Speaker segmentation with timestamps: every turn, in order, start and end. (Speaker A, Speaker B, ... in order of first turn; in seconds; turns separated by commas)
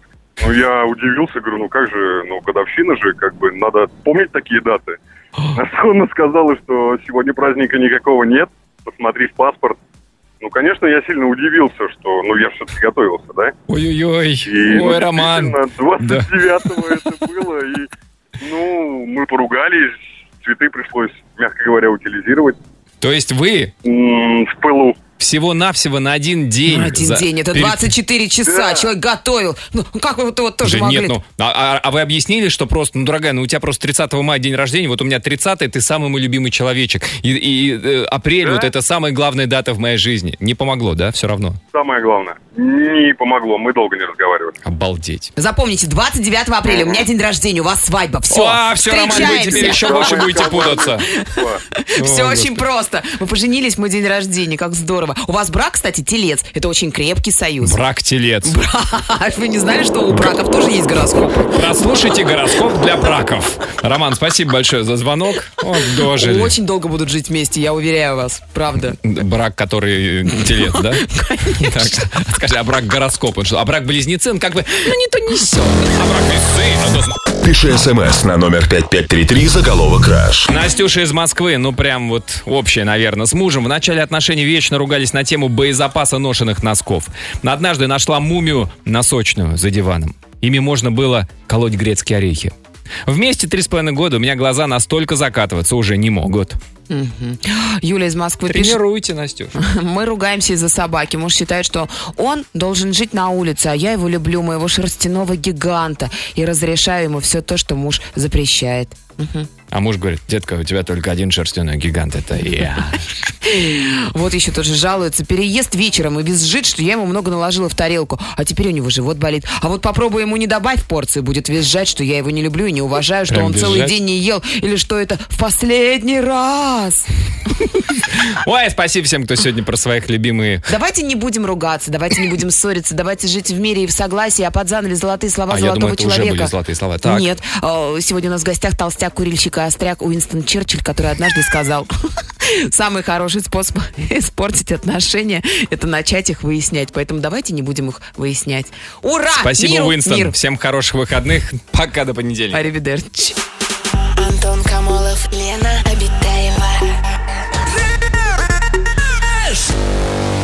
Speaker A: 0.4-5.0, Speaker A: 5.5-9.8, Speaker A: 10.4-13.6, Speaker B: 13.7-17.1, Speaker A: 14.4-17.9, Speaker A: 18.4-22.6, Speaker B: 23.0-23.7, Speaker A: 23.8-25.0, Speaker B: 25.2-27.9, Speaker C: 26.6-31.2, Speaker A: 28.4-28.9, Speaker B: 30.6-41.6, Speaker A: 38.4-38.7, Speaker A: 41.7-44.6, Speaker B: 44.6-45.3, Speaker C: 45.4-50.4, Speaker A: 46.7-47.0, Speaker B: 48.3-51.1, Speaker A: 49.0-51.6, Speaker C: 51.0-57.8, Speaker B: 52.0-52.6, Speaker B: 57.6-58.5, Speaker C: 58.4-61.6, Speaker B: 61.5-66.5, Speaker C: 66.0-69.0, Speaker B: 68.8-77.2, Speaker C: 70.4-72.1, Speaker C: 75.2-75.9, Speaker D: 77.4-80.5, Speaker B: 80.5-92.5, Speaker B: 93.0-96.6, Speaker C: 96.9-98.8, Speaker B: 98.5-99.5, Speaker C: 99.5-109.5, Speaker B: 109.7-113.1, Speaker C: 113.4-127.1, Speaker B: 123.3-124.0, Speaker B: 128.1-130.7, Speaker C: 130.7-136.5, Speaker B: 135.5-137.3, Speaker C: 137.0-150.4, Speaker B: 149.4-152.6, Speaker C: 152.5-153.4, Speaker E: 154.2-157.0